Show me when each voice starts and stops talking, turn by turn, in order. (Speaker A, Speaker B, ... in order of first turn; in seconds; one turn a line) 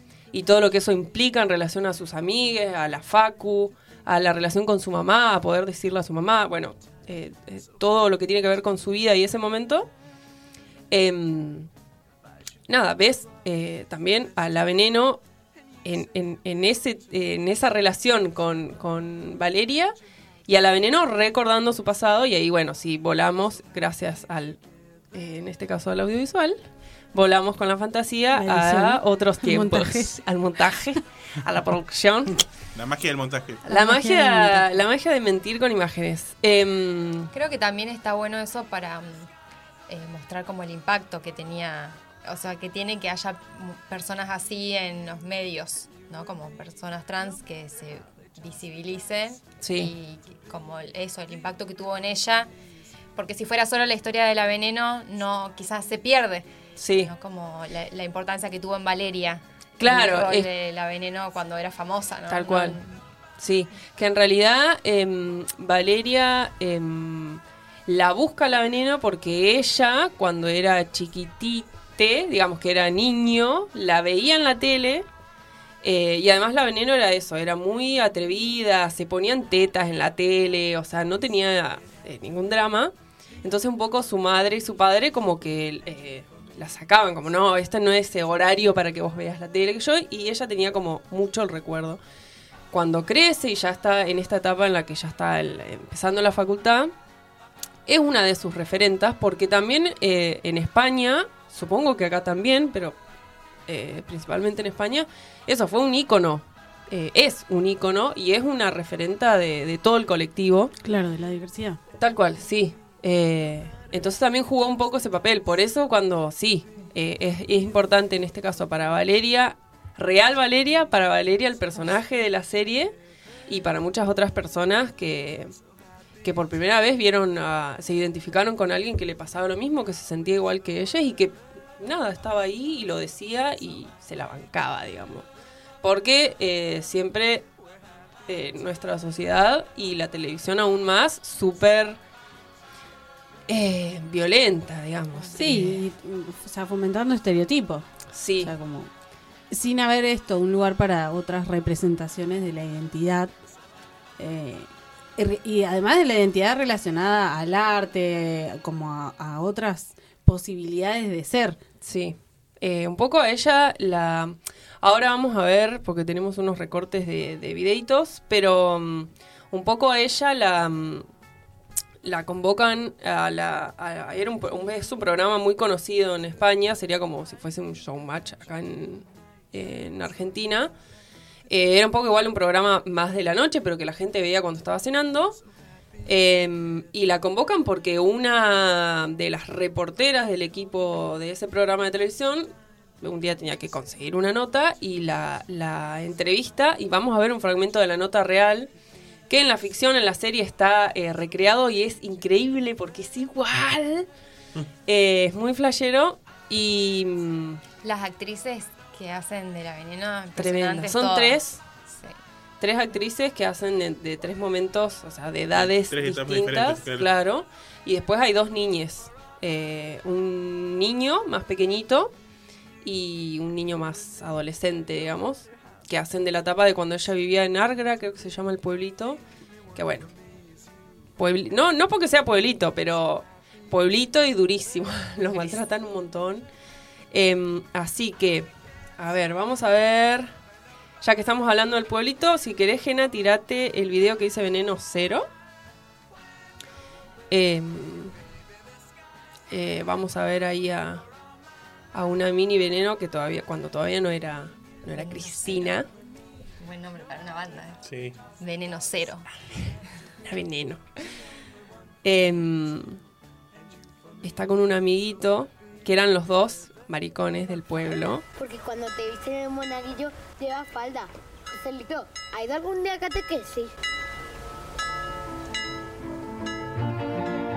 Speaker A: 0.3-9.9
Speaker A: 10.9-11.7
Speaker A: 12.7-15.2
Speaker A: 15.8-19.9
Speaker A: 20.5-24.6
Speaker A: 25.1-26.6
Speaker A: 27.1-32.4
Speaker B: 28.3-30.1
Speaker C: 32.7-33.6
Speaker A: 33.6-37.3
Speaker B: 33.7-34.8
Speaker D: 37.3-39.3
Speaker D: 39.9-52.5
Speaker A: 49.6-49.9
Speaker D: 53.1-63.0
Speaker A: 56.8-57.1
Speaker A: 59.8-60.5
Speaker A: 62.3-62.8
Speaker A: 63.4-75.1
Speaker A: 75.8-82.9
Speaker A: 83.4-92.0
Speaker A: 92.7-96.9
Speaker A: 97.9-103.0
Speaker A: 103.7-110.7
Speaker B: 110.8-111.8
Speaker A: 112.0-122.9
Speaker A: 123.5-125.5
Speaker A: 126.2-135.2
Speaker A: 135.8-137.4
Speaker A: 138.3-142.0
Speaker A: 143.5-145.8
Speaker B: 145.3-147.9
Speaker A: 148.1-148.5
Speaker B: 148.4-148.9
Speaker B: 149.5-153.3
Speaker B: 154.2-161.6
Speaker A: 161.8-171.1
Speaker A: 172.0-180.7
Speaker A: 181.5-185.4
Speaker A: 186.1-192.5
Speaker A: 193.0-198.7
Speaker A: 199.3-204.1
Speaker A: 204.9-207.6
Speaker D: 207.8-211.4
Speaker A: 210.4-211.6
Speaker A: 212.6-222.1
Speaker C: 215.5-217.1
Speaker A: 222.8-229.2
Speaker A: 229.7-230.1
Speaker A: 231.2-236.4
Speaker A: 237.1-240.3
Speaker A: 241.0-245.3
Speaker A: 247.3-248.1
Speaker A: 249.5-251.0
Speaker A: 251.9-255.9
Speaker D: 254.9-255.8
Speaker D: 256.6-257.8
Speaker C: 257.8-258.2
Speaker D: 258.4-259.2
Speaker A: 260.2-260.8
Speaker A: 262.0-263.0
Speaker A: 264.2-268.2
Speaker E: 268.4-273.7